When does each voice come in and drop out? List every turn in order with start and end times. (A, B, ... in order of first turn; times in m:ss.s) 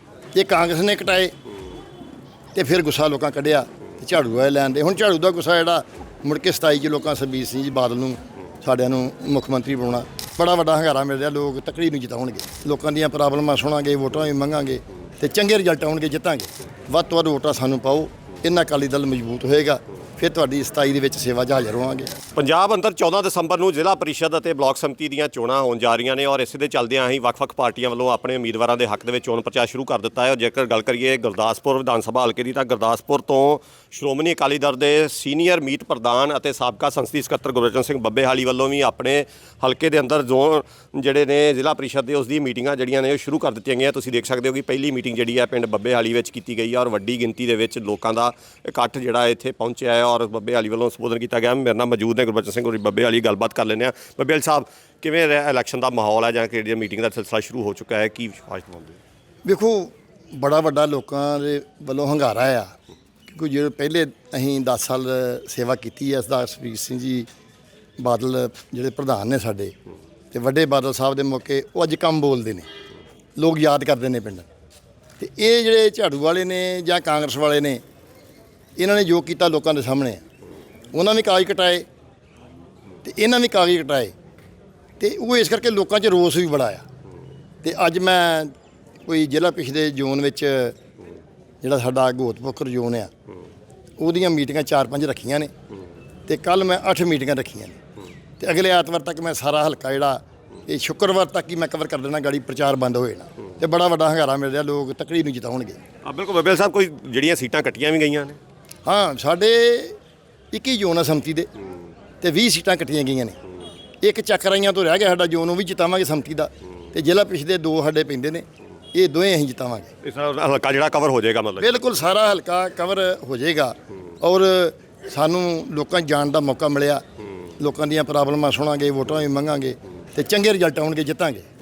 0:00.3-0:01.3 A
0:02.5-0:22.1 A
0:22.4-0:59.0 B
0:59.4-1:02.7 A
1:03.3-1:07.3 A
1:08.0-1:09.7 A
1:10.3-1:12.7 A
1:13.4-1:14.5 A
1:15.2-1:17.8 A
1:18.8-1:20.2 A
1:20.9-1:21.8 A
1:23.0-1:24.1 A
1:25.0-1:26.8 A
1:27.6-1:28.5 A
1:29.0-1:30.8 A
1:31.6-1:33.1 A
1:34.0-1:35.5 A
1:36.3-1:37.8 A
1:38.4-1:45.8 A
1:46.0-1:48.4 B
1:48.8-1:50.0 A
1:50.5-1:51.5 A
1:52.2-1:53.4 A
1:54.0-1:59.9 A
2:00.0-2:01.7 B
2:01.6-2:07.0 A
2:07.6-2:11.4 A